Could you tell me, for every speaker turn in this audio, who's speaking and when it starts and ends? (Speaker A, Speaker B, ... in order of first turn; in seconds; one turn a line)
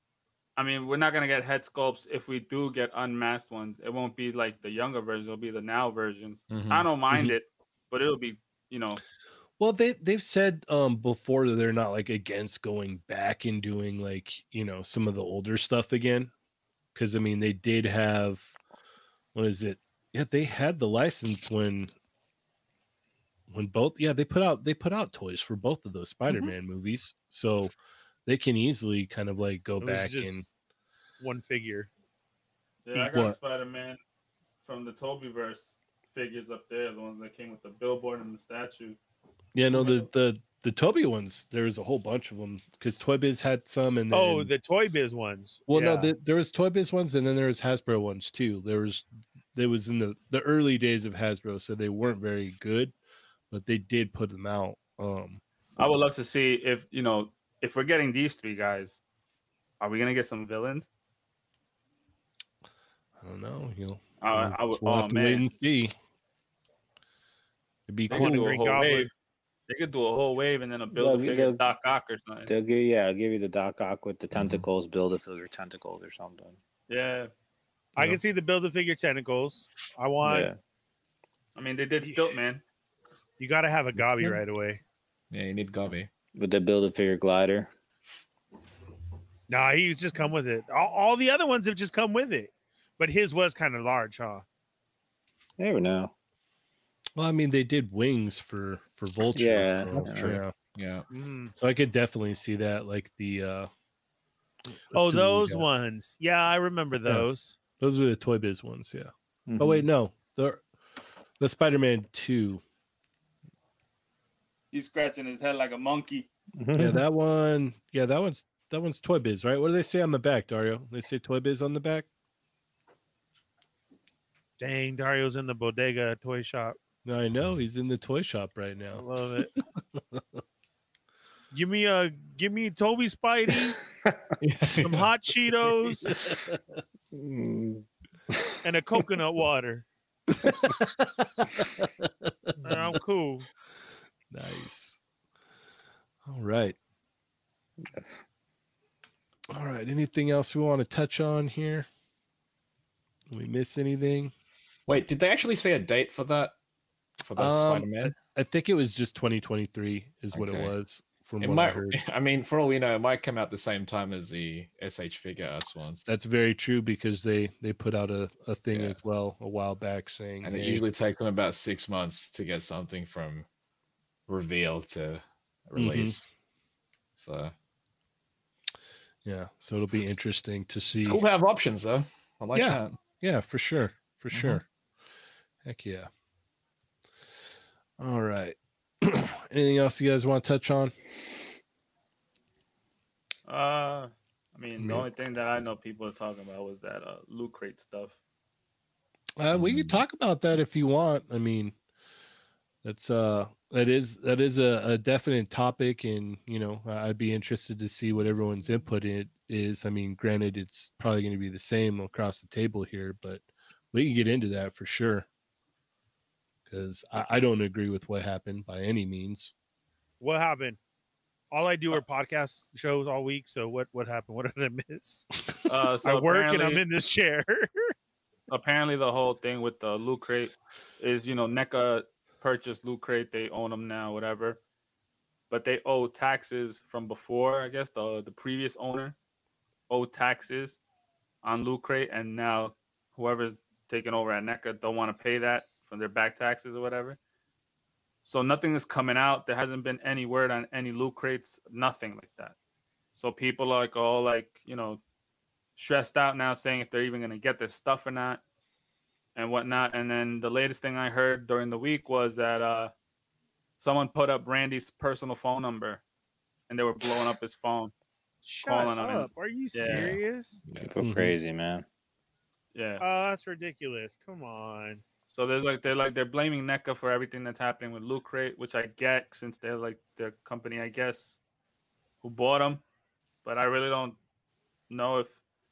Speaker A: 0.6-9.0
Speaker B: 6.5-6.9
Speaker C: 9.6-16.3
Speaker C: 16.9-18.5
Speaker C: 19.3-21.9
Speaker C: 23.5-27.7
Speaker C: 28.2-30.4
Speaker D: 29.8-30.5
Speaker D: 31.2-31.9
Speaker A: 32.8-34.0
Speaker C: 33.0-33.4
Speaker A: 34.6-39.0
Speaker C: 39.5-44.5
Speaker D: 39.7-40.0
Speaker D: 44.1-46.1
Speaker C: 45.7-52.9
Speaker C: 53.5-55.4
Speaker A: 55.8-59.0
Speaker A: 59.8-60.9
Speaker C: 63.2-65.9
Speaker A: 64.2-65.5
Speaker C: 67.9-68.5
Speaker A: 68.1-69.1
Speaker D: 68.1-69.1
Speaker A: 69.7-72.5
Speaker E: 70.9-71.6
Speaker E: 72.5-76.5
Speaker B: 74.3-74.6
Speaker A: 76.9-77.3
Speaker D: 78.0-80.5
Speaker E: 80.2-80.6
Speaker A: 81.5-82.6
Speaker D: 82.0-82.3
Speaker D: 83.4-84.8
Speaker B: 85.3-86.1
Speaker E: 86.3-87.7
Speaker D: 89.5-94.4
Speaker E: 95.6-96.1
Speaker C: 97.2-100.5
Speaker E: 99.3-100.4
Speaker B: 99.9-101.0
Speaker D: 101.1-101.5
Speaker C: 101.5-103.7
Speaker C: 104.9-105.7
Speaker D: 104.9-107.5
Speaker C: 107.8-110.6
Speaker E: 109.5-109.9
Speaker C: 111.4-112.6
Speaker A: 114.7-116.3
Speaker E: 116.6-117.0
Speaker C: 116.7-122.1
Speaker D: 124.6-126.8
Speaker C: 127.0-129.0
Speaker D: 128.9-129.5
Speaker C: 129.6-130.4
Speaker D: 131.5-133.8
Speaker B: 134.4-135.1
Speaker D: 134.8-136.1
Speaker C: 136.0-136.6
Speaker E: 137.1-138.5
Speaker D: 138.6-139.8
Speaker C: 140.3-142.9
Speaker D: 142.6-143.4
Speaker C: 144.3-145.0
Speaker C: 146.2-146.8
Speaker C: 149.5-151.9
Speaker C: 153.3-154.3
Speaker B: 154.9-156.5
Speaker B: 157.2-158.1
Speaker C: 157.4-162.0
Speaker B: 160.3-160.7
Speaker B: 161.4-166.1
Speaker C: 166.1-170.8
Speaker B: 168.7-169.0
Speaker B: 170.4-173.4
Speaker B: 174.3-176.2
Speaker C: 175.8-176.3
Speaker B: 177.2-177.5
Speaker C: 179.2-181.2
Speaker B: 181.0-183.0
Speaker C: 182.5-184.6
Speaker B: 184.3-184.6
Speaker C: 185.6-186.1
Speaker C: 188.0-190.9
Speaker A: 193.5-198.2
Speaker C: 194.8-195.1
Speaker C: 199.4-201.7
Speaker B: 199.5-200.0
Speaker C: 202.8-215.3
Speaker C: 216.7-219.5
Speaker D: 220.2-220.8
Speaker D: 221.5-225.3
Speaker A: 225.7-226.8
Speaker D: 226.0-227.9
Speaker A: 228.5-234.6
Speaker A: 235.5-239.1
Speaker A: 239.9-240.8
Speaker A: 241.4-247.2
Speaker A: 248.2-252.5
Speaker A: 253.1-255.0
Speaker A: 255.8-258.4
Speaker A: 259.3-262.9
Speaker A: 263.8-266.0
Speaker A: 266.7-267.9
Speaker D: 268.4-270.6
Speaker A: 268.6-270.1
Speaker B: 269.9-270.9
Speaker E: 270.7-271.8
Speaker C: 271.0-271.3
Speaker A: 272.7-273.0
Speaker D: 273.0-275.0
Speaker A: 275.3-281.4
Speaker A: 282.2-282.8
Speaker A: 283.4-284.2
Speaker A: 284.9-285.4